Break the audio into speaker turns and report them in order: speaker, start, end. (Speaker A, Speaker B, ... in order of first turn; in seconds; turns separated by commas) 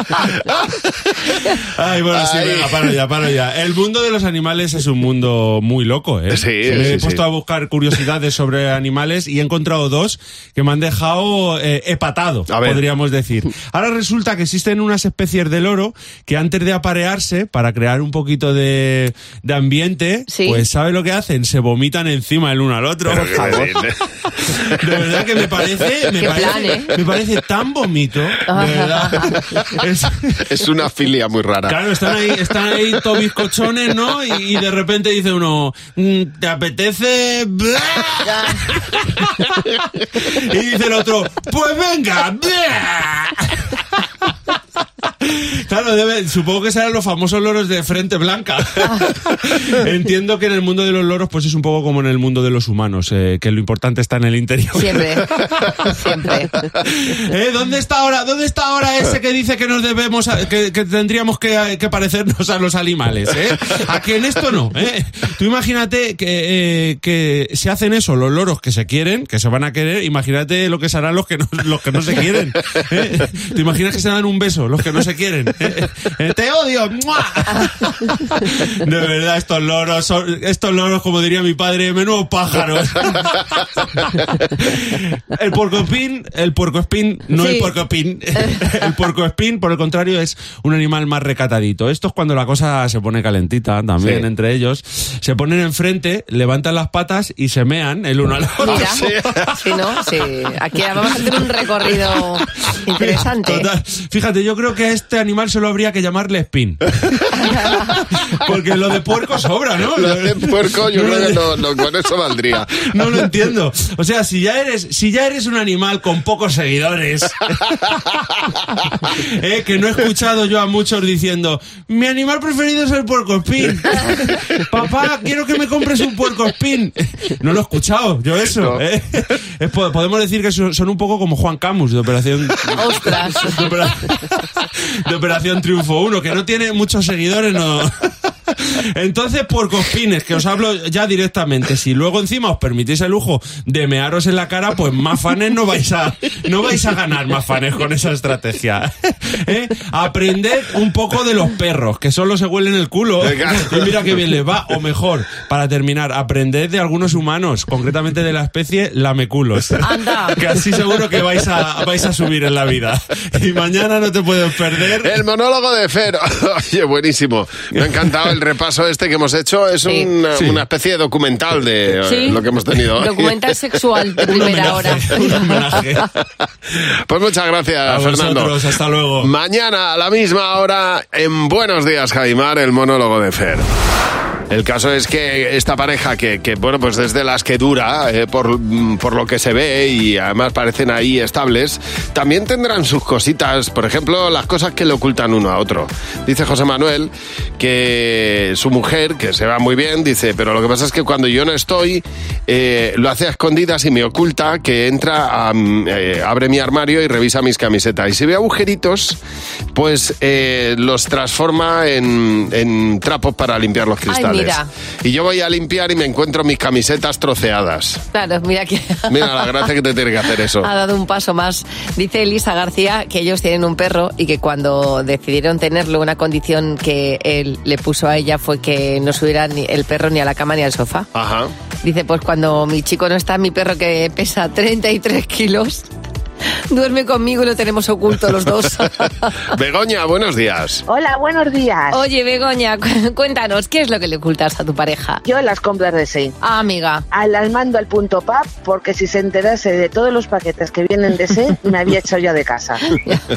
Speaker A: 1.6-23.8, Speaker B: 2.1-2.9, Speaker B: 6.3-7.2, Speaker B: 12.5-12.8, Speaker C: 20.3-20.6, Speaker B: 23.1-24.0, Speaker A: 24.4-30.4, Speaker C: 26.2-26.9, Speaker C: 28.5-29.3, Speaker B: 30.5-31.8, Speaker A: 31.7-39.5, Speaker C: 38.3-38.6, Speaker A: 40.1-43.7, Speaker A: 45.2-55.9, Speaker C: 54.8-55.2, Speaker C: 55.9-56.5, Speaker A: 56.8-83.4, Speaker A: 84.6-99.4, Speaker C: 87.4-87.7, Speaker B: 94.0-94.3, Speaker B: 98.6-99.5, Speaker C: 98.7-99.0, Speaker C: 99.6-103.7, Speaker A: 103.0-106.8, Speaker C: 107.4-108.0, Speaker A: 107.5-111.7, Speaker B: 110.0-112.8, Speaker A: 112.8-118.0, Speaker A: 119.0-165.2, Speaker C: 132.8-133.4, Speaker B: 153.2-153.9, Speaker C: 159.8-160.4, Speaker B: 165.0-173.4, Speaker A: 170.3-170.7, Speaker C: 172.1-172.4, Speaker C: 173.0-175.6, Speaker A: 174.2-176.1, Speaker B: 177.1-178.6, Speaker A: 177.9-179.3, Speaker B: 179.2-183.7, Speaker B: 184.5-209.2, Speaker B: 209.7-218.0, Speaker C: 214.1-214.7, Speaker C: 218.1-219.7, Speaker B: 219.1-220.7, Speaker C: 220.6-231.1, Speaker B: 231.2-231.5, Speaker C: 231.8-235.8, Speaker C: 236.7-239.3, Speaker B: 239.5-240.8, Speaker D: 240.9-242.0, Speaker C: 241.9-245.2, Speaker D: 245.2-246.3, Speaker C: 246.4-247.1, Speaker D: 247.1-252.8